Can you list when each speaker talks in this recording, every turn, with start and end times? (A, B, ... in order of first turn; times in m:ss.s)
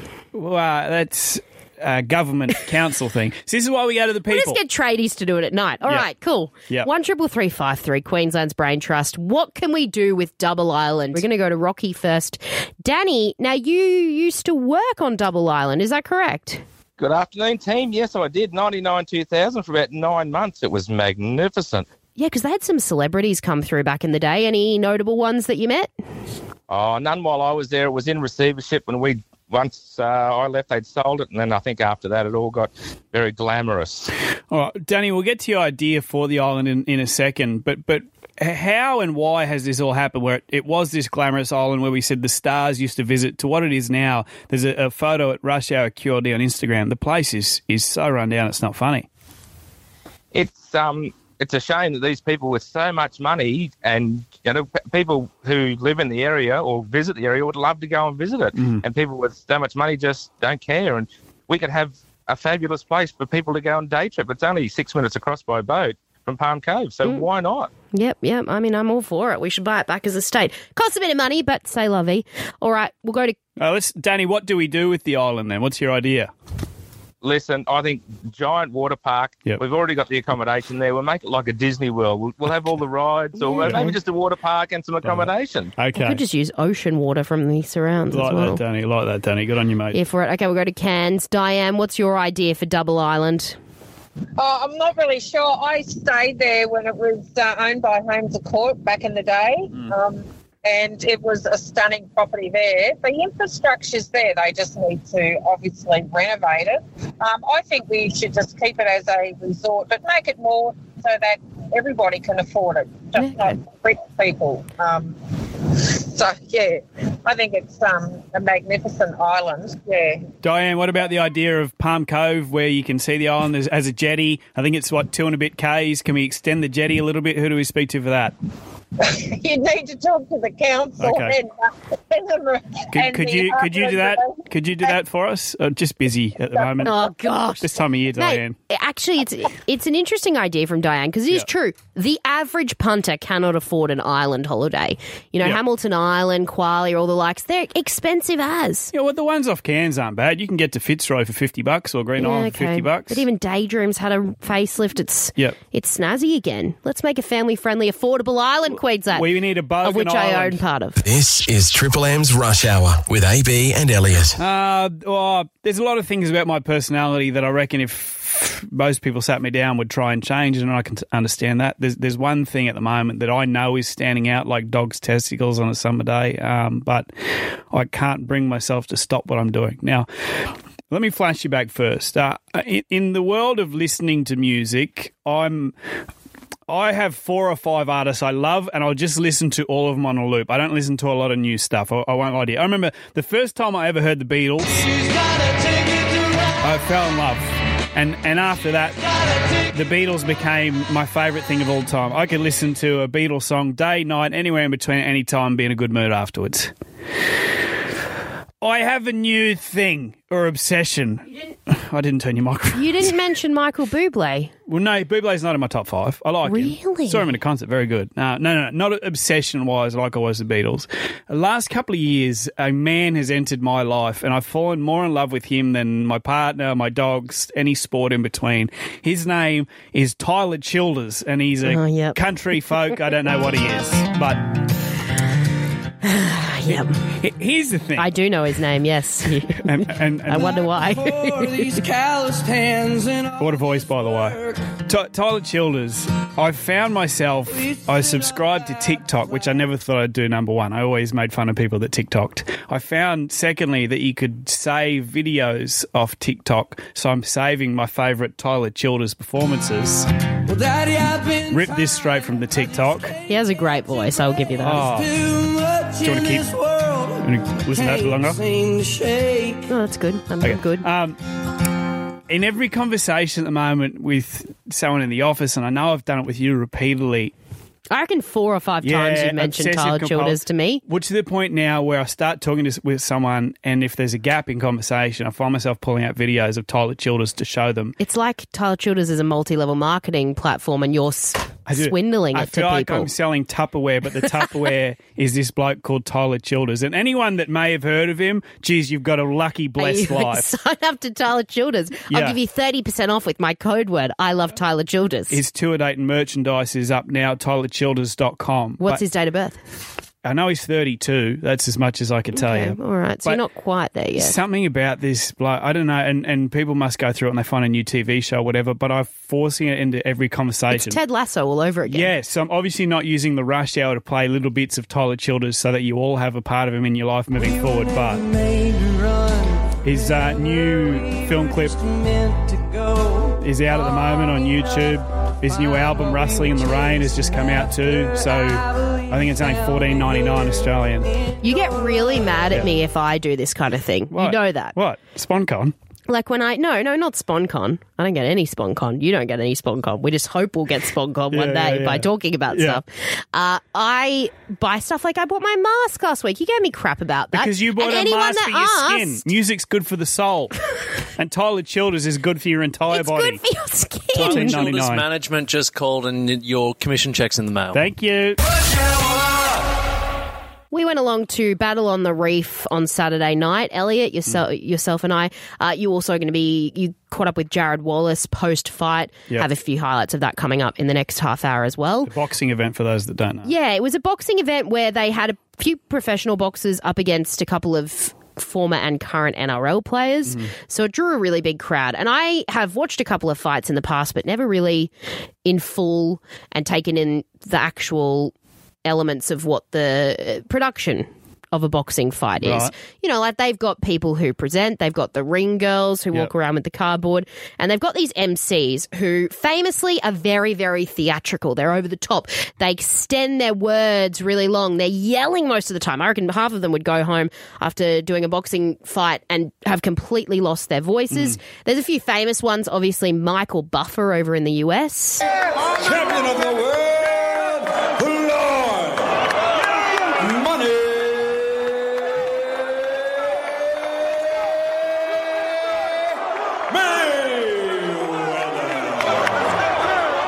0:00.3-0:04.6 A
0:04.3-0:16.6 B
0:17.0-0:21.8 C
0:22.2-0:25.9 B
0:26.7-0:34.1 C
0:34.5-0:49.1 A
0:50.3-1:07.7 C
0:58.6-0:58.8 A
1:07.9-1:13.4 B
1:13.6-1:16.3 A
1:17.2-1:25.7 C
1:23.4-1:23.9 B
1:23.6-1:24.0 A
1:25.0-1:26.2 A
1:25.9-1:28.6 B
1:28.1-1:30.0 A
1:29.9-1:33.6 B
1:34.4-1:55.2 D
1:53.2-1:53.6 B
1:55.7-2:00.3 D
2:00.4-2:08.3 A
2:09.0-2:14.9 D
2:11.0-2:11.4 A
2:12.9-2:16.9 A
2:16.6-2:16.9 D
2:16.8-2:28.9 B
2:17.6-2:18.6 A
2:28.9-2:33.2 A
2:32.2-2:39.3 B
2:39.1-2:40.6 A
2:39.8-2:41.0 B
2:41.0-2:44.4 E
2:44.4-2:57.1 A
2:57.7-3:00.1 A
3:00.9-3:05.7 A
3:06.7-3:14.9 A
3:16.6-3:19.0 A
3:19.7-3:26.7 A
3:28.6-3:33.1 A
3:32.7-3:34.5 B
3:34.7-3:54.5 A
3:36.4-3:37.2 B
3:51.6-3:52.2 B
3:56.0-3:57.0 B
3:57.1-3:58.1 A
3:58.0-4:01.8 B
3:59.5-4:00.6 A
4:00.5-4:04.7 F
4:03.4-4:20.1 A
4:07.7-4:08.2 F
4:20.4-4:22.0 F
4:21.5-4:23.1 A
4:23.3-4:24.9 B
4:24.6-4:25.2 A
4:24.8-4:29.7 F
4:26.0-4:26.5 A
4:27.2-4:28.4 A
4:29.7-4:30.8 B
4:30.4-4:31.2 A
4:32.3-4:37.3 A
4:37.9-4:40.8 B
4:38.8-4:48.0 A
4:48.0-4:53.1 B
4:51.7-5:00.5 A
4:59.8-5:05.4 B
5:02.1-5:02.4 A
5:05.3-5:09.0 A
5:08.8-5:09.6 B
5:10.2-5:13.4 A
5:12.3-5:14.4 B
5:14.2-5:21.0 A
5:20.7-5:22.1 B
5:21.8-5:28.2 A
5:27.6-5:33.4 F
5:29.8-5:31.8 A
5:33.4-5:41.1 A
5:35.6-5:40.5 F
5:41.4-5:44.7 B
5:41.4-5:42.2 F
5:44.1-5:45.7 A
5:46.1-5:59.3 B
5:51.3-5:52.8 A
5:57.3-6:00.6 A
6:01.2-6:03.4 A
6:02.9-6:04.6 B
6:04.1-6:05.0 A
6:04.1-6:07.8 G
6:07.7-6:08.4 A
6:10.7-6:22.1 B
6:22.0-6:23.5 A
6:23.4-6:34.9 B
6:30.3-6:30.5 A
6:35.4-6:38.3 B
6:38.8-7:05.3 B
6:42.4-6:42.7 A
7:01.1-7:01.4 A
7:05.7-7:09.0 F
7:10.2-7:11.0 F